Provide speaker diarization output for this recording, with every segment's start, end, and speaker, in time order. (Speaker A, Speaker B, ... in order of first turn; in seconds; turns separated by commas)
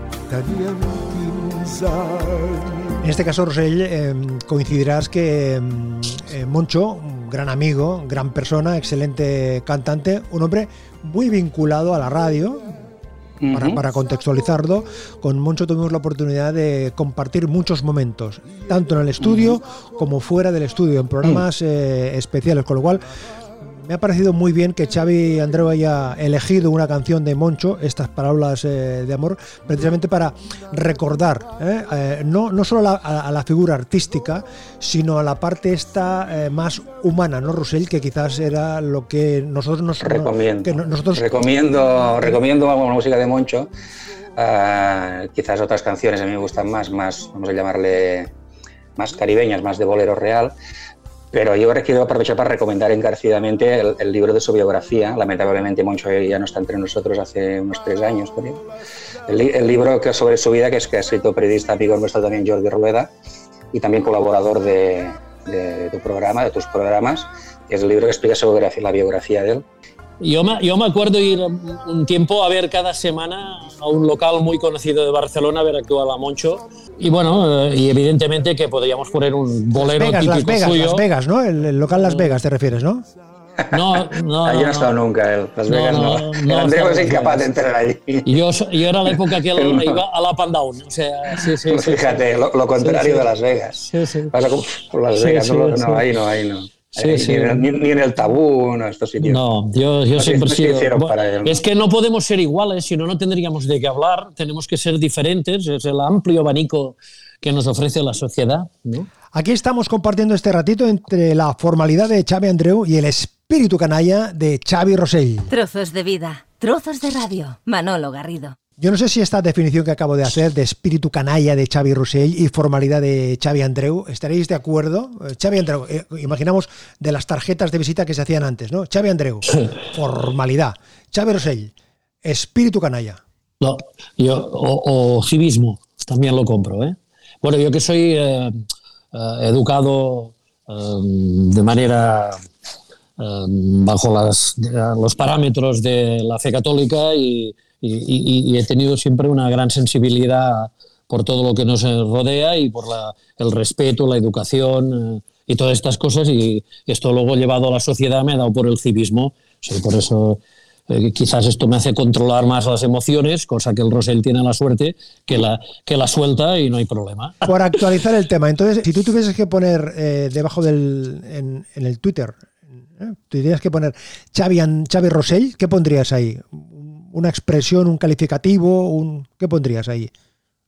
Speaker A: 0.3-3.0, Speaker B: 3.0-12.8, Speaker C: 13.4-13.8, Speaker B: 13.5-23.0, Speaker C: 19.2-19.6, Speaker B: 23.6-41.4, Speaker C: 40.0-43.7, Speaker C: 44.4-48.3, Speaker C: 49.0-50.5, Speaker C: 51.3-58.6, Speaker C: 59.3-63.1, Speaker C: 63.7-69.7, Speaker D: 70.2-81.1, Speaker B: 79.8-83.1, Speaker C: 83.6-88.4, Speaker D: 83.7-84.9, Speaker D: 85.7-87.5, Speaker D: 88.3-92.2, Speaker C: 89.6-90.0, Speaker C: 91.7-99.4, Speaker D: 92.8-93.3, Speaker D: 93.8-94.3, Speaker D: 95.2-96.0, Speaker D: 97.0-97.7, Speaker D: 99.2-109.1, Speaker C: 100.2-101.6, Speaker B: 109.3-115.5, Speaker E: 115.5-118.6, Speaker B: 118.8-131.7, Speaker B: 132.2-133.2, Speaker D: 133.6-142.4, Speaker D: 143.2-167.5, Speaker B: 167.4-180.1